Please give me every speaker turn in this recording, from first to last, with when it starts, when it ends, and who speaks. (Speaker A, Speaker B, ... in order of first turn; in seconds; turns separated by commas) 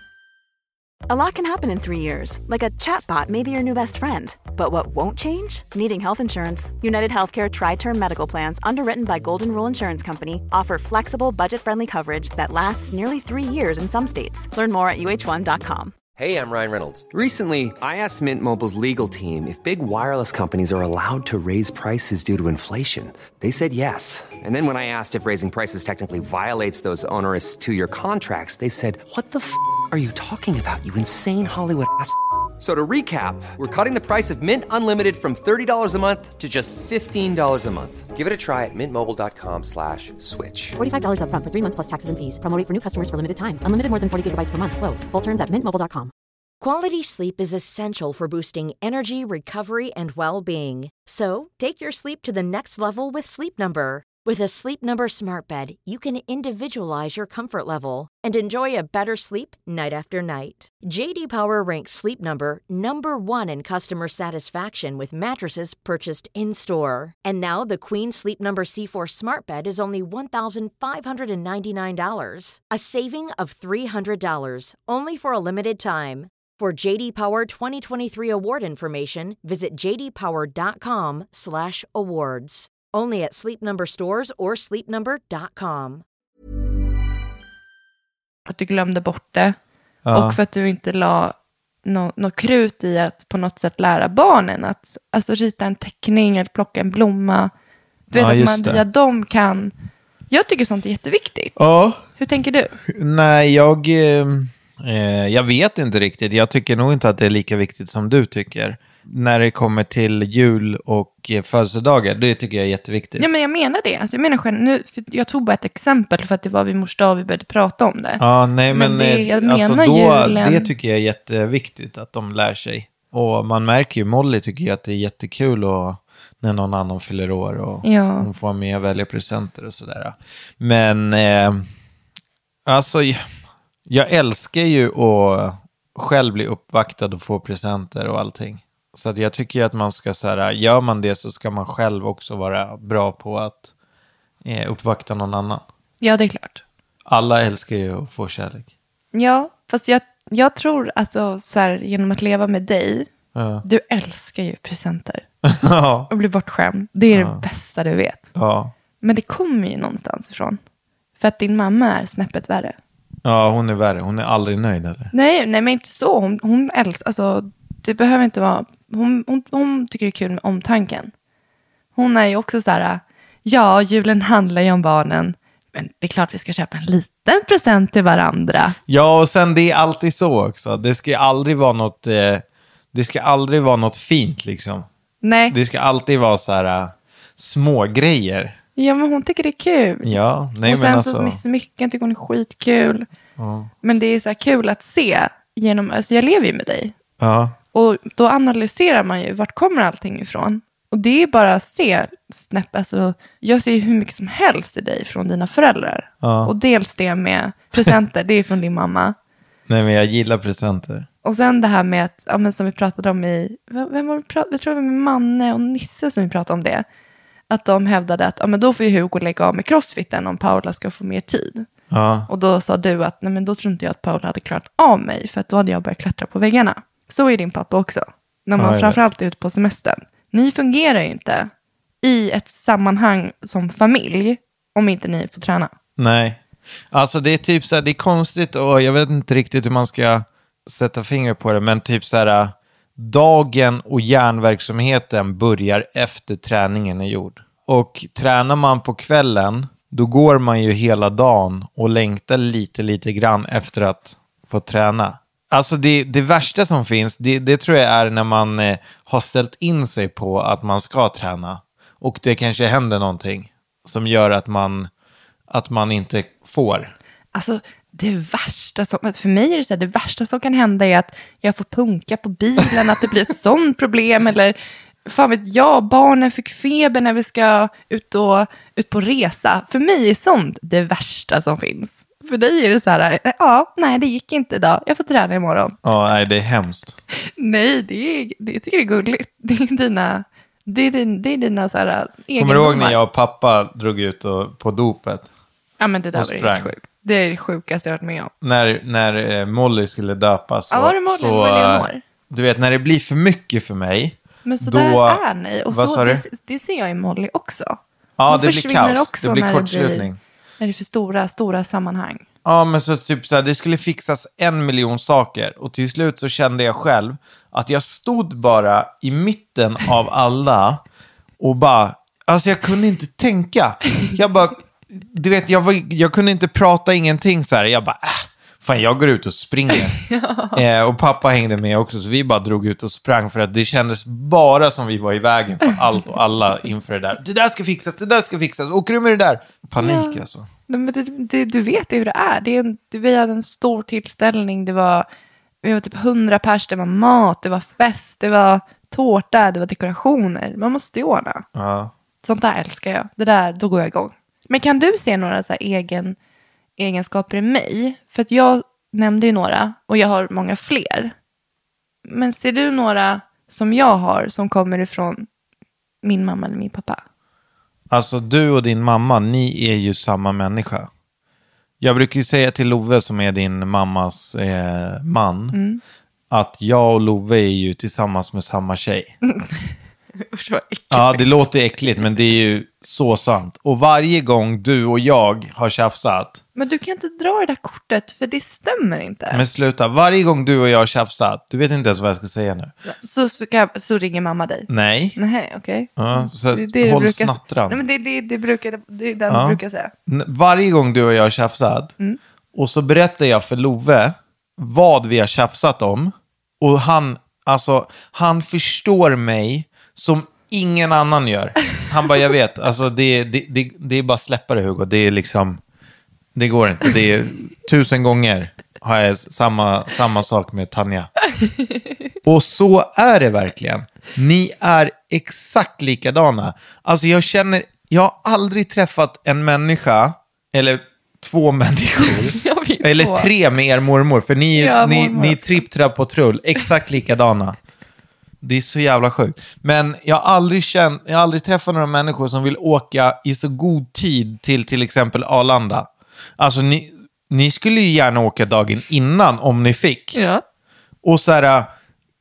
Speaker A: 1.1-15.9, Speaker B: 16.2-40.8, Speaker C: 40.8-46.1, Speaker D: 46.6-86.0, Speaker E: 88.5-89.6, Speaker F: 90.0-90.4, Speaker E: 90.1-97.5, Speaker E: 98.1-99.7, Speaker F: 98.1-98.8, Speaker E: 100.3-101.6, Speaker F: 101.6-102.0, Speaker E: 102.2-102.8, Speaker F: 102.9-113.3, Speaker E: 113.2-120.7, Speaker F: 118.2-131.6, Speaker E: 127.8-128.3, Speaker F: 132.7-133.2, Speaker F: 133.9-143.7, Speaker F: 144.4-145.6, Speaker E: 146.0-146.6, Speaker F: 147.1-148.7, Speaker E: 149.1-153.1, Speaker F: 153.3-153.6, Speaker E: 153.6-155.2, Speaker F: 155.4-156.1, Speaker E: 156.1-158.3, Speaker F: 157.1-157.4, Speaker F: 158.3-158.7, Speaker E: 159.0-160.6, Speaker E: 161.2-162.8, Speaker F: 163.2-165.1, Speaker E: 165.1-171.1, Speaker E: 172.0-178.8, Speaker F: 178.9-184.9, Speaker E: 185.2-185.6, Speaker F: 185.5-188.6, Speaker E: 188.8-193.1, Speaker F: 190.0-191.4, Speaker F: 193.4-193.7, Speaker E: 193.8-196.9, Speaker F: 197.2-197.6, Speaker E: 197.7-209.1, Speaker F: 206.2-206.5, Speaker F: 209.7-211.1, Speaker E: 211.2-216.8, Speaker E: 217.5-221.7, Speaker F: 221.9-222.3, Speaker E: 222.3-231.5, Speaker F: 228.6-229.0, Speaker E: 232.0-235.7, Speaker F: 236.0-264.9, Speaker F: 265.5-266.9, Speaker E: 267.3-285.8, Speaker F: 285.8-287.0, Speaker E: 287.4-293.0, Speaker F: 292.4-295.3, Speaker E: 295.8-298.3, Speaker F: 296.1-296.7, Speaker F: 298.4-306.2, Speaker E: 300.7-302.0, Speaker E: 304.4-310.1, Speaker F: 308.2-310.2, Speaker E: 310.6-312.2, Speaker F: 312.4-320.8, Speaker F: 321.4-330.0, Speaker E: 330.1-330.6, Speaker F: 330.5-340.5, Speaker E: 339.8-345.1, Speaker E: 345.6-351.4, Speaker F: 351.6-351.9, Speaker E: 352.2-356.1, Speaker E: 356.8-361.1, Speaker E: 362.1-365.3, Speaker E: 366.0-367.0, Speaker F: 367.9-370.9, Speaker F: 371.8-375.6, Speaker E: 375.5-375.8, Speaker F: 376.3-379.1, Speaker E: 380.2-381.4, Speaker F: 380.9-386.4, Speaker E: 386.6-389.4, Speaker F: 389.3-392.7, Speaker E: 392.9-399.9, Speaker F: 394.7-395.2, Speaker F: 396.0-397.8, Speaker F: 399.3-401.9, Speaker F: 402.6-415.6, Speaker F: 416.4-421.1, Speaker F: 422.2-437.6, Speaker E: 432.0-433.3, Speaker E: 434.6-435.6, Speaker F: 438.4-450.2, Speaker E: 450.1-450.4, Speaker F: 451.0-451.7